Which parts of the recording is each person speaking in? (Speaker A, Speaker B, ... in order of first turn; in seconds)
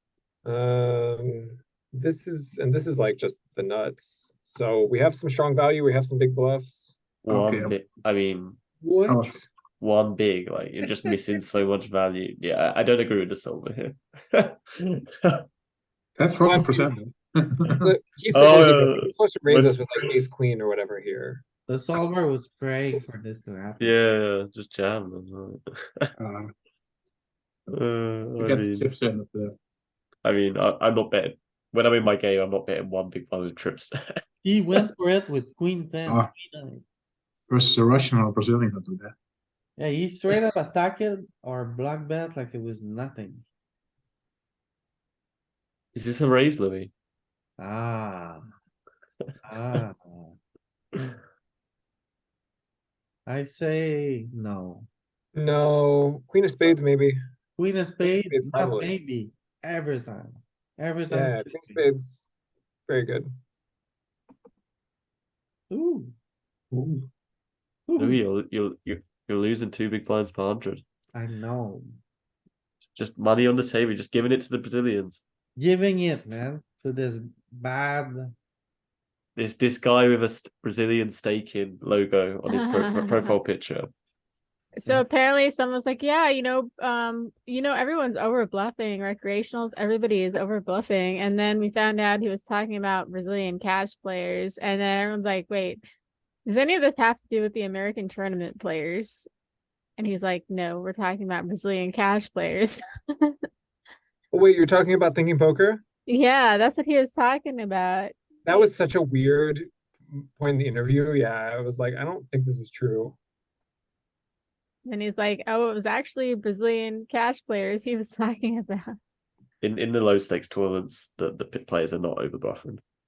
Speaker A: 0.4-7.0, 8.8-9.5, 16.4-16.9, 17.8-21.4, 55.4-57.2, 58.0-58.9, 61.1-62.2, 62.9-63.3, 104.3-105.8, 108.5-113.2
Speaker B: 7.2-8.6, 9.8-15.4, 18.3-19.8, 23.8-26.1, 27.7-28.9, 30.2-34.2, 45.9-46.9, 68.0-70.8, 72.9-75.2, 79.3-83.9, 119.6-122.8
Speaker C: 7.3-7.7, 16.2-17.5, 26.2-26.5, 28.4-29.6, 37.5-39.1
Speaker D: 21.7-24.0, 34.4-36.8, 39.8-43.5, 47.6-48.5, 49.4-50.4, 53.2-54.9, 57.6-61.8, 65.7-66.1, 67.9-68.2, 71.1-72.0, 75.5-78.3
Speaker E: 82.5-83.4, 84.8-95.8, 96.5-99.3, 100.0-103.4, 106.1-108.7, 114.8-118.9